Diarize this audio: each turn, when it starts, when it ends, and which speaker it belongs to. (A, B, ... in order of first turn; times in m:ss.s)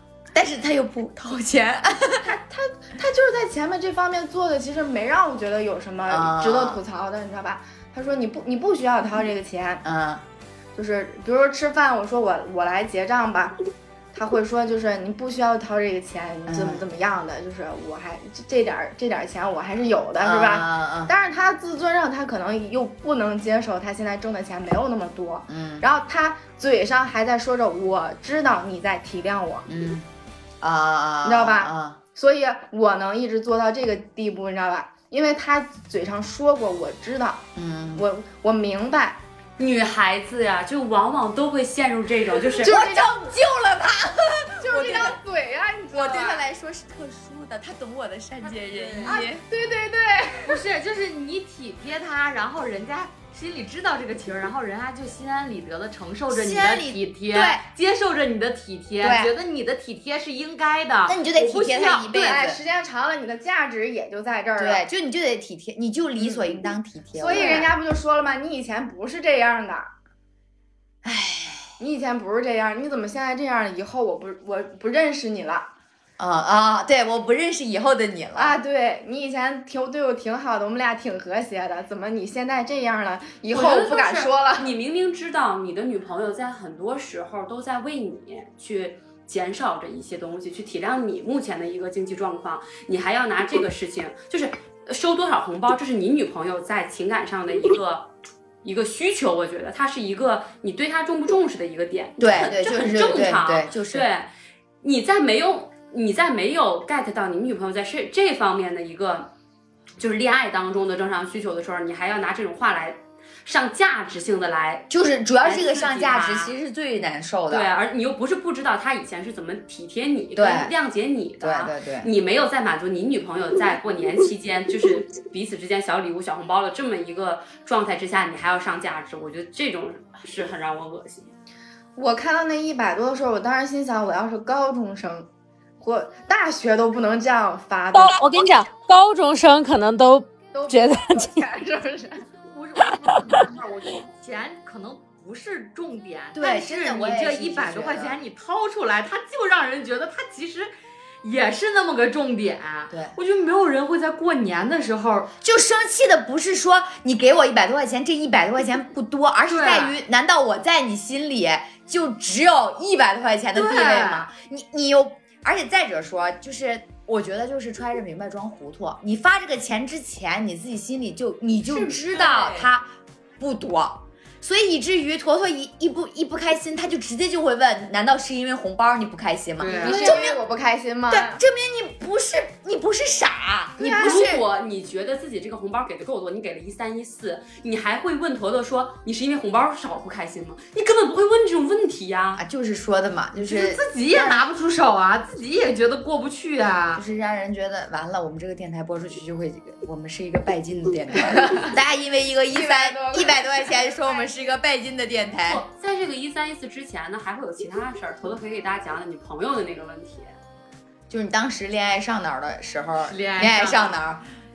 0:00.3-0:02.2 A
0:02.2-0:09.8 B
0:06.1-0:06.8 A
0:09.8-0:10.2 A
0:10.7-0:13.6 B
0:14.1-0:29.7 B
0:16.5-0:16.8 A
0:20.2-0:21.1 A
0:25.5-0:25.8 A
0:29.7-0:30.1 A
0:30.6-0:32.0 A
0:31.2-0:39.2 B
0:37.5-0:38.0 A
0:39.6-0:42.7 C
0:42.6-0:43.1 B
0:42.6-0:45.2 A
0:44.6-0:46.4 B
0:45.9-0:49.4 A
0:48.4-0:49.2 D
0:49.0-0:50.6 B
0:50.4-1:02.3 D
0:56.3-0:57.6 A
0:59.0-0:59.3 A
1:01.0-1:02.6 A
1:02.1-1:04.8 B
1:04.6-1:07.7 A
1:06.2-1:09.9 B
1:11.0-1:11.7 A
1:11.8-1:15.7 B
1:16.2-1:18.6 A
1:18.4-1:24.7 B
1:23.5-1:38.1 C
1:38.6-1:44.3 C
1:42.2-1:44.1 A
1:44.8-1:49.3 C
1:50.0-1:54.9 C
1:54.9-1:57.7 A
1:55.4-1:56.5 C
1:57.5-2:11.3 C
2:00.4-2:00.7 A
2:01.4-2:02.1 A
2:12.0-2:15.3 B
2:15.8-2:18.2 B
2:17.9-2:21.4 E
2:20.5-2:22.2 B
2:22.5-2:30.7 D
2:26.3-2:28.2 A
2:31.2-2:35.3 D
2:32.9-2:33.1 A
2:35.4-3:00.4 A
2:39.5-2:39.9 D
2:43.5-2:44.3 D
2:51.7-2:52.7 C
2:59.6-2:59.9 D
2:59.8-3:01.4 B
2:59.9-3:00.2 C
3:01.1-3:04.4 A
3:03.8-3:04.2 B
3:04.0-3:12.4 C
3:12.4-3:14.4 A
3:13.4-3:17.0 D
3:16.9-3:25.6 A
3:22.5-3:24.3 B
3:25.4-3:30.4 C
3:31.1-3:34.2 A
3:33.0-3:34.0 D